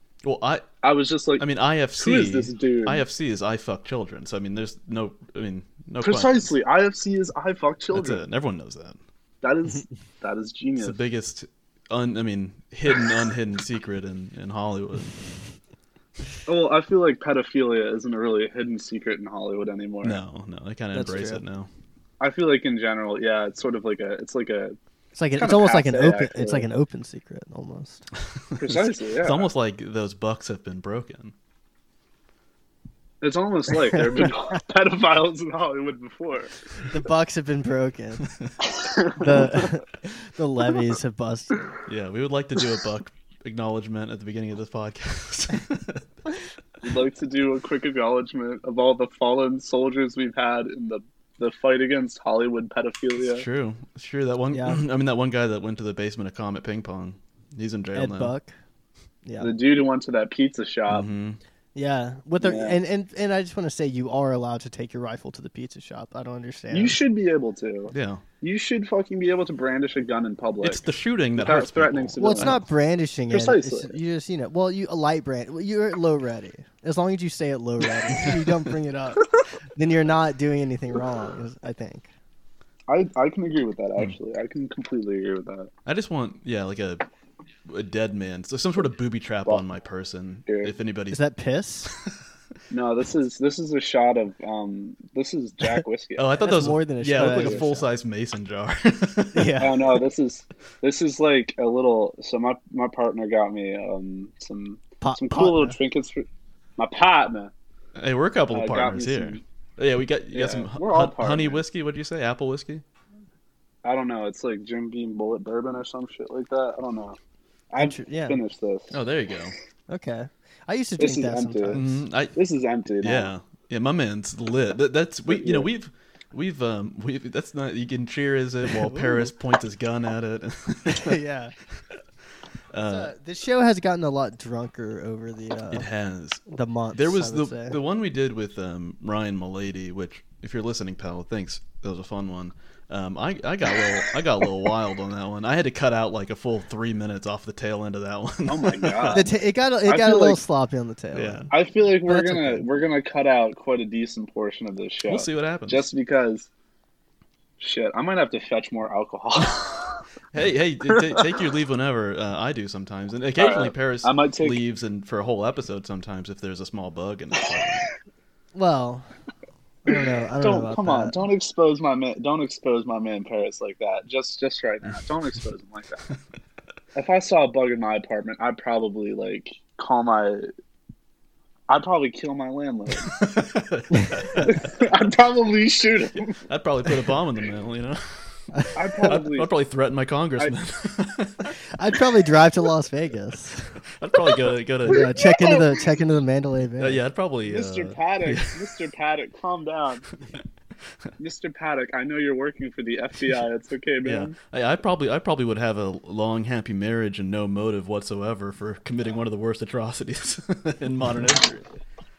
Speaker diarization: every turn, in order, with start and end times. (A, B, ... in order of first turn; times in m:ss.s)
0:00.2-0:00.7 A
0:00.8-0:01.4 B
0:01.4-0:06.5 A
0:02.0-0:03.0 B
0:06.0-0:08.2 B
0:07.9-0:09.0 A
0:09.4-0:11.0 B
0:10.8-0:15.1 A
0:16.5-0:20.2 B
0:20.0-0:21.7 A
0:20.9-0:21.4 C
0:22.2-0:24.8 B
0:25.1-0:28.1 C
0:25.4-0:26.6 B
0:28.5-0:31.3 A
0:28.6-0:29.5 B
0:33.2-0:36.5 B
0:36.8-0:38.3 C
0:38.7-0:39.3 B
0:39.2-0:41.7 C
0:41.8-0:46.0 A
0:46.8-0:53.4 B
0:53.2-0:58.3 A
0:54.5-0:54.8 C
0:57.9-0:58.5 C
0:59.2-0:59.5 C
0:59.4-1:01.0 B
1:00.9-1:01.4 A
1:01.7-1:07.0 C
1:02.4-1:02.8 B
1:06.7-1:10.8 B
1:07.9-1:08.2 A
1:10.6-1:12.6 A
1:11.4-1:12.6 B
1:12.2-1:22.1 C
1:13.3-1:13.9 B
1:22.9-1:25.7 B
1:25.8-1:27.0 A
1:27.7-1:31.2 A
1:30.4-1:30.7 B
1:31.1-1:31.9 C
1:32.7-1:36.3 B
1:36.2-1:39.7 A
1:36.4-1:37.9 C
1:37.2-1:37.6 B
1:39.3-1:39.8 C
1:39.6-1:46.2 B
1:45.0-1:45.8 C
1:46.8-1:47.5 B
1:48.0-1:52.8 A
1:48.5-1:49.4 B
1:50.3-1:51.6 B
1:53.8-1:57.2 B
1:57.7-1:59.0 B
1:57.8-1:58.4 C
1:58.9-1:59.5 A
1:59.9-2:02.0 C
2:01.0-2:01.8 B
2:01.7-2:02.3 A
2:02.3-2:03.3 B
2:03.0-2:11.2 A
2:05.3-2:05.7 B
2:08.7-2:09.3 C
2:10.9-2:11.5 C
2:12.7-2:13.1 A
2:12.8-2:15.9 C
2:15.7-2:29.2 A
2:16.5-2:17.8 C
2:28.4-2:29.2 B
2:29.1-2:31.5 C
2:29.8-2:30.4 B
2:31.1-2:31.5 A
2:31.5-2:36.5 B
2:32.1-2:32.6 C
2:35.1-2:35.8 A
2:37.6-2:40.0 B
2:39.4-2:39.6 A
2:40.3-2:47.9 A
2:43.4-2:44.6 B
2:48.5-2:49.0 C
2:49.8-2:51.2 C
2:49.9-2:56.0 B
2:56.9-3:00.5 B
3:01.7-3:03.1 B
3:03.0-3:04.6 A
3:03.9-3:04.3 C
3:04.4-3:06.4 B
3:06.5-3:08.0 A
3:08.5-3:09.1 C
3:08.7-3:09.5 B
3:09.0-3:11.5 A
3:11.7-3:13.8 C
3:14.0-3:15.2 A
3:14.8-3:17.0 C
3:14.9-3:15.8 B
3:16.8-3:18.6 A
3:17.4-3:20.0 B
3:21.2-3:24.3 B
3:24.0-3:31.7 A